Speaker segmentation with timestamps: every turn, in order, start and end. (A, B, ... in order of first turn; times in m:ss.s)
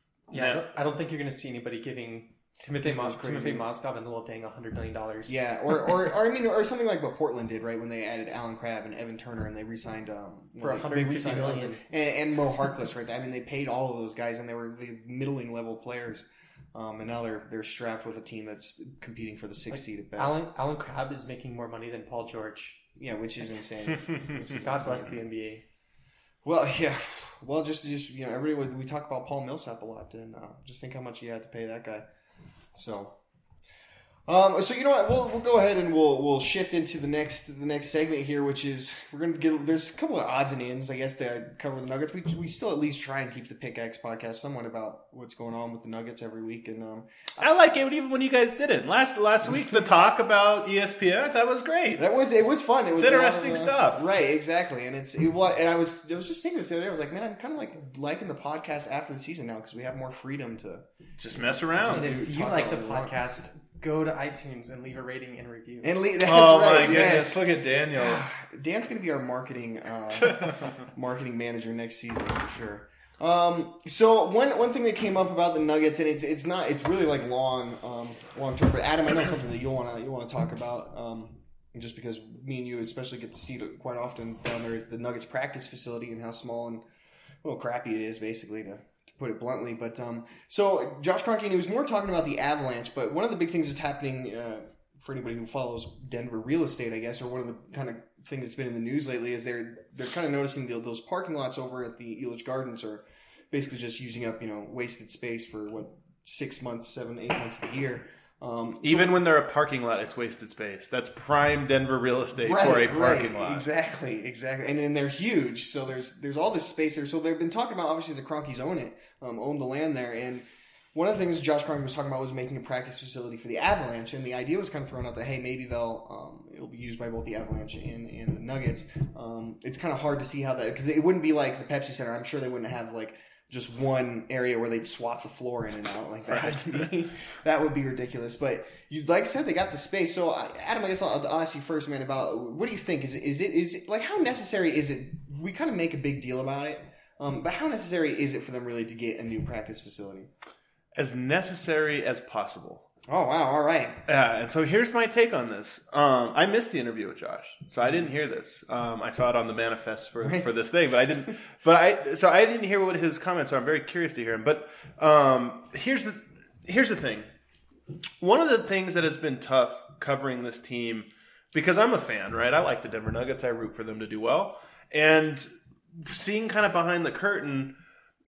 0:00.3-0:05.4 A
0:00.3-0:00.7 B
0:02.8-0:03.7 C
0:05.3-0:20.4 C
0:10.6-0:11.8 A
0:19.7-0:22.8 A
0:23.0-0:25.2 C
0:24.4-0:25.6 A
0:26.4-0:32.0 C
0:32.7-0:33.1 C
0:34.3-0:47.4 C
0:47.4-0:52.0 B
0:52.0-1:03.2 C
0:53.0-0:54.0 B
1:01.2-1:02.1 B
1:01.9-1:06.0 A
1:05.8-1:26.8 C
1:06.2-1:08.2 B
1:10.2-1:10.7 B
1:27.4-1:49.1 C
1:48.8-1:53.6 B
1:52.4-2:30.3 C
2:16.3-2:16.9 B
2:31.0-2:32.8 B
2:33.1-2:34.0 C
2:34.1-2:47.3 B
2:48.2-2:57.7 B